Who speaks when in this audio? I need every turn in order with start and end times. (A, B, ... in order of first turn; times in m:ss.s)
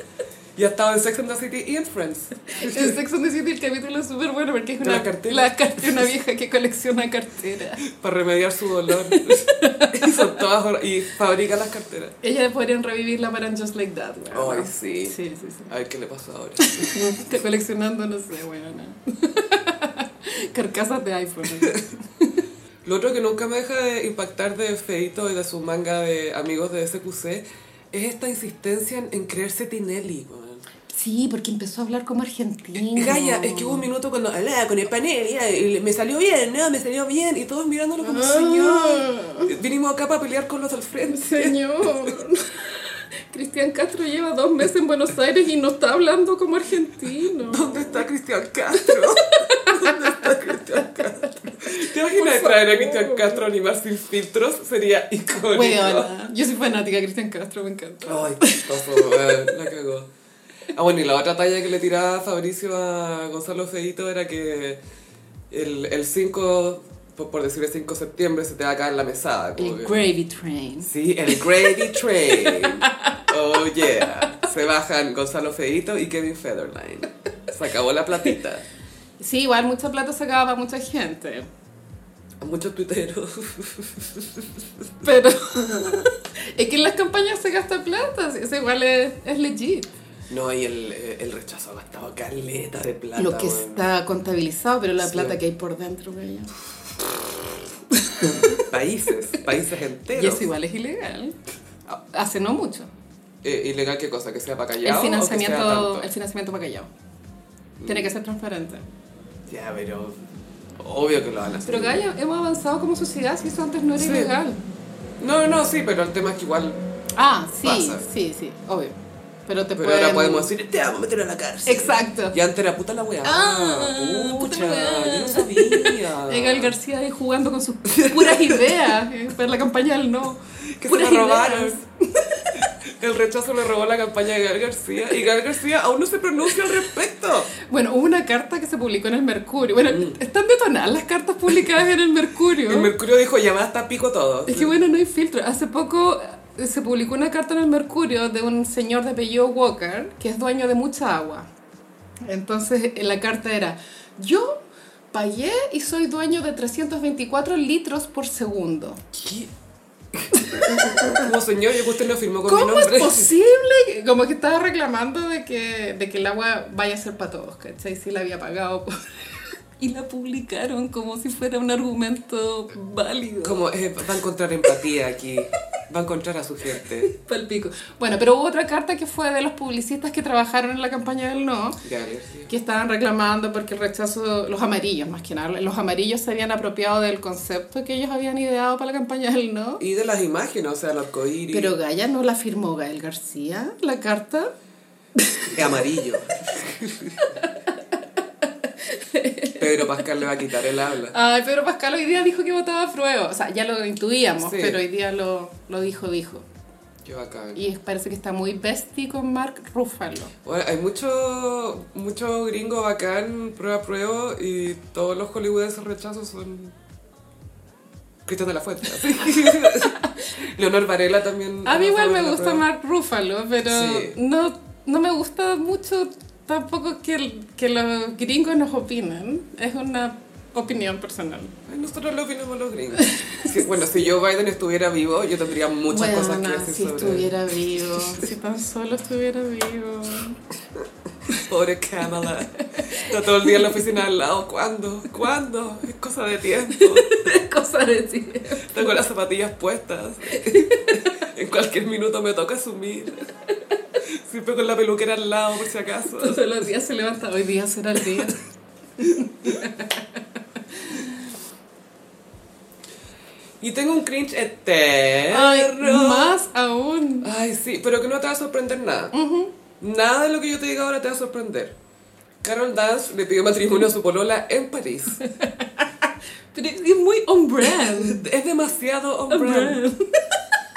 0:00.6-0:02.9 A
0:02.5-0:07.8 B
0:04.8-0:06.0 A
0:07.8-0:12.1 A
0:08.9-0:10.3 B
0:12.2-0:15.7 B
0:14.3-0:15.2 A
0:15.7-0:16.9 A
0:16.6-0:22.4 B
0:22.8-0:30.6 A
0:30.9-0:33.9 B
0:32.8-0:42.1 A
0:38.0-0:39.5 B
0:41.1-0:48.1 B
0:47.4-0:56.1 A
0:48.9-0:53.4 B
0:55.5-0:59.5 B
0:58.0-1:00.1 A
1:00.7-1:04.8 A
1:05.5-1:10.1 A
1:09.6-1:13.2 B
1:10.8-1:18.6 A
1:19.2-1:21.5 B
1:22.4-1:24.9 A
1:25.0-1:29.9 B
1:30.3-1:33.8 A
1:33.2-1:36.5 B
1:35.0-1:35.4 A
1:37.9-1:38.7 B
1:38.4-1:40.5 A
1:40.1-1:41.4 B
1:41.9-1:42.9 B
1:43.4-1:46.1 A
1:44.8-1:46.9 B
1:47.8-1:48.1 A
1:47.8-1:48.8 B
1:49.5-1:50.2 A
1:50.8-1:52.0 A
1:51.6-1:54.6 B
1:54.0-1:54.3 A
1:55.2-1:56.8 A
1:57.2-1:58.9 B
1:57.6-1:58.0 A
1:59.5-2:00.5 B
1:59.8-2:06.7 A
2:01.6-2:02.4 B
2:03.2-2:12.7 B
2:07.9-2:08.8 A
2:10.8-2:11.8 A
2:12.5-2:17.5 A
2:17.5-2:22.9 B
2:19.9-2:20.2 A
2:22.6-2:24.7 A
2:24.4-2:31.4 B
2:32.2-2:39.0 B
2:39.1-2:39.5 A
2:40.1-2:43.3 A
2:40.3-2:41.3 B
2:42.4-2:49.0 B
2:49.8-2:53.6 B
2:53.4-2:57.1 A
2:56.8-3:01.8 B
3:01.8-3:02.5 A
3:02.5-3:09.8 B
3:09.8-3:11.7 A
3:11.5-3:14.5 B
3:15.2-3:15.6 B
3:15.5-3:17.3 A
3:17.2-3:20.1 B
3:19.6-3:21.1 A
3:21.1-3:26.4 B
3:24.4-3:24.8 A
3:27.0-3:27.6 A
3:27.5-3:30.3 B
3:30.4-3:36.8 A
3:38.2-3:42.6 A
3:41.6-3:51.6 B
3:43.7-3:44.2 A
3:51.6-3:58.2 A
3:53.1-3:53.5 B
3:55.9-4:00.4 B
4:01.3-4:07.2 A
4:02.6-4:03.8 B
4:06.7-4:08.9 B
4:08.6-4:13.3 A
4:10.3-4:11.2 B
4:14.0-4:16.4 A
4:16.1-4:18.4 B
4:19.0-4:21.2 B
4:23.6-4:26.4 A
4:25.3-4:27.3 B
4:27.2-4:29.1 A
4:29.1-4:29.6 B
4:29.8-4:31.7 A
4:32.4-4:35.2 A
4:35.2-4:38.3 B
4:37.8-4:39.8 A
4:39.3-4:40.4 B